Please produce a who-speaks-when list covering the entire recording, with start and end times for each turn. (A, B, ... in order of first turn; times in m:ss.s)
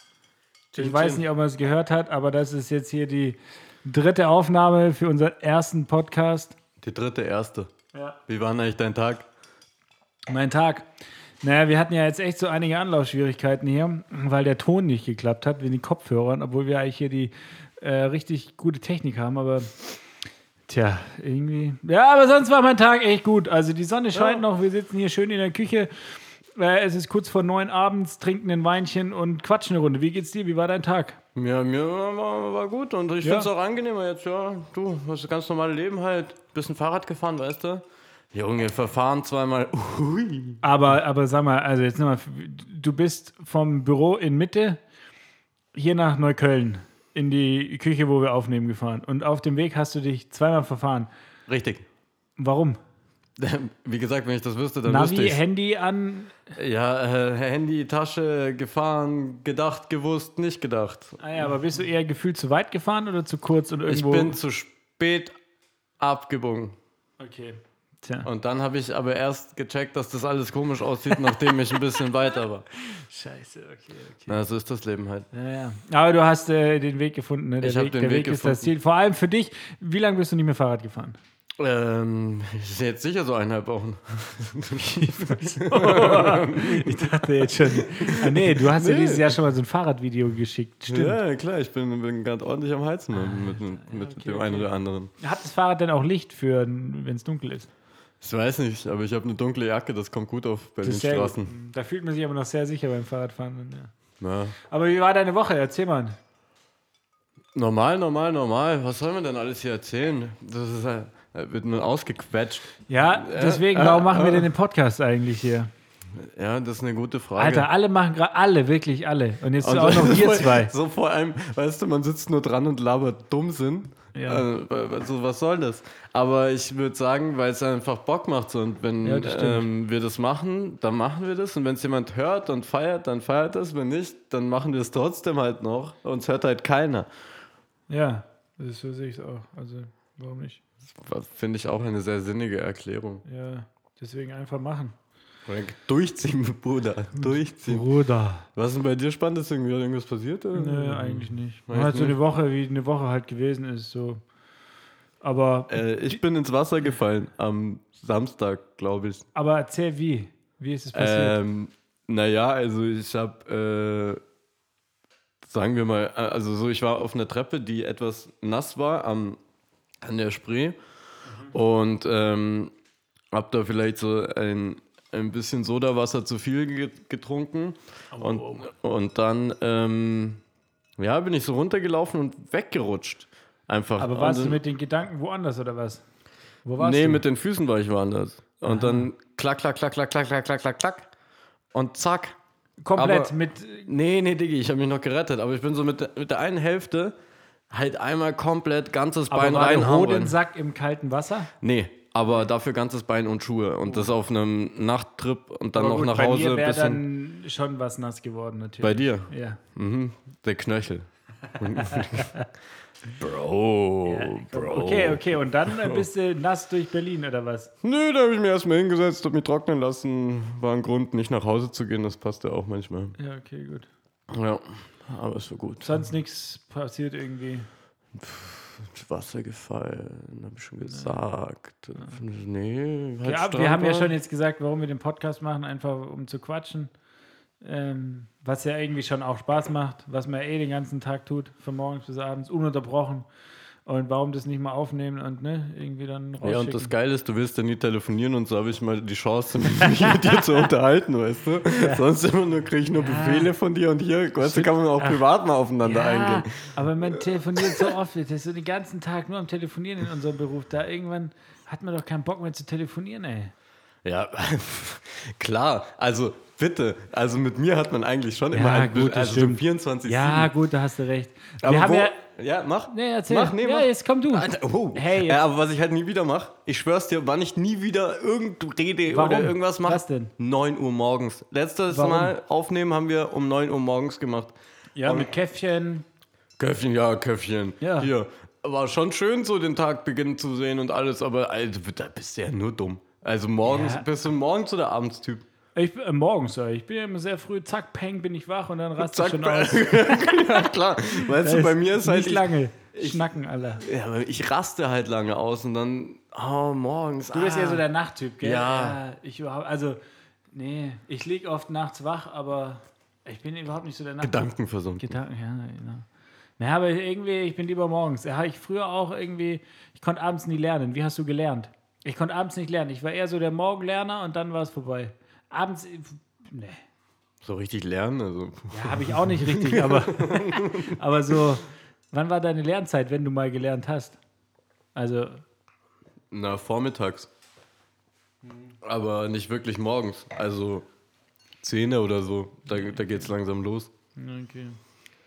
0:00.7-0:01.2 A
0:00.8-0:06.6 B
0:06.8-0:07.7 A
0:08.3-0:09.3 A
0:10.3-0:10.9 B
0:11.4-0:19.7 B
0:20.7-0:25.9 B
0:24.1-0:24.4 A
0:26.6-0:31.2 B
0:31.4-0:40.6 A
0:33.2-0:33.5 B
0:40.6-0:44.8 B
0:45.7-0:51.1 B
0:51.5-0:51.9 A
0:52.4-0:52.8 B
0:53.4-0:55.4 A
0:54.9-0:56.5 B
0:56.5-1:01.2 A
1:01.2-1:04.4 B
1:03.9-1:05.4 A
1:06.0-1:06.8 A
1:07.2-1:08.3 B
1:08.2-1:12.7 A
1:11.1-1:11.9 B
1:12.7-1:14.4 B
1:14.3-1:15.3 A
1:15.3-1:21.2 B
1:17.6-1:18.7 A
1:21.6-1:29.3 A
1:24.8-1:31.2 B
1:30.9-1:35.1 A
1:33.1-1:37.7 B
1:38.2-1:41.5 A
1:40.8-1:43.9 B
1:44.2-1:44.6 A
1:44.7-1:46.2 B
1:47.6-1:54.5 A
1:52.9-1:55.7 B
1:56.1-1:57.7 A
1:57.4-2:00.7 B
1:59.6-2:17.1 A
2:04.1-2:04.4 B
2:09.0-2:09.7 B
2:17.9-2:20.6 B
2:20.9-2:23.2 A
2:23.2-2:25.0 B
2:25.5-2:27.9 A
2:27.2-2:28.5 B
2:28.5-2:32.2 A
2:30.5-2:34.2 B
2:35.2-2:36.2 B
2:35.7-2:39.3 A
2:39.4-2:41.4 B
2:40.9-2:44.2 A
2:45.4-2:49.4 A
2:50.0-2:50.8 A
2:51.3-2:51.5 B
2:51.5-2:52.7 A
2:53.3-3:00.4 A
2:58.1-2:58.7 B
3:01.0-3:04.6 A
3:04.0-3:06.0 B
3:06.6-3:07.2 B
3:06.8-3:11.1 A
3:08.6-3:09.1 B
3:11.7-3:12.4 A
3:12.8-3:13.9 B
3:13.0-3:17.1 A
3:17.7-3:20.4 A
3:19.3-3:21.5 B
3:21.6-3:27.0 A
3:25.8-3:29.6 B
3:28.8-3:31.1 A
3:31.6-3:32.4 A
3:31.7-3:32.5 B
3:33.1-3:36.1 A
3:34.0-3:37.7 B
3:37.8-3:43.2 A
3:43.2-3:43.9 B
3:44.3-3:46.0 A
3:45.8-3:47.7 B
3:48.2-3:54.1 A
3:50.8-3:51.2 B
3:53.2-3:56.9 B
3:57.6-4:03.3 B
4:03.9-4:06.9 B
4:06.4-4:17.9 A
4:09.8-4:10.7 B
4:11.7-4:12.1 B
4:13.0-4:13.5 B
4:14.4-4:15.2 B
4:15.8-4:23.5 B
4:24.0-4:30.5 A
4:28.5-4:32.2 B
4:31.6-4:45.3 A
4:32.9-4:35.4 B
4:39.1-4:40.3 B
4:41.9-4:42.4 B
4:45.0-4:46.0 B
4:46.6-4:55.4 A
4:47.8-4:48.1 B
4:53.6-4:54.0 B
4:55.8-5:00.6 B
4:59.0-5:02.5 A
5:01.2-5:03.8 B
5:03.8-5:07.8 A
5:07.3-5:10.0 B
5:08.4-5:09.0 A
5:10.5-5:14.4 B
5:14.2-5:15.1 A
5:15.0-5:16.1 B
5:16.6-5:26.8 B
5:27.4-5:31.0 A
5:28.7-5:34.2 B
5:35.0-5:35.4 B
5:36.3-5:37.3 A
5:38.4-5:38.7 B
5:38.8-5:40.9 A
5:41.6-5:43.9 A
5:42.9-5:43.2 B
5:44.2-5:44.8 B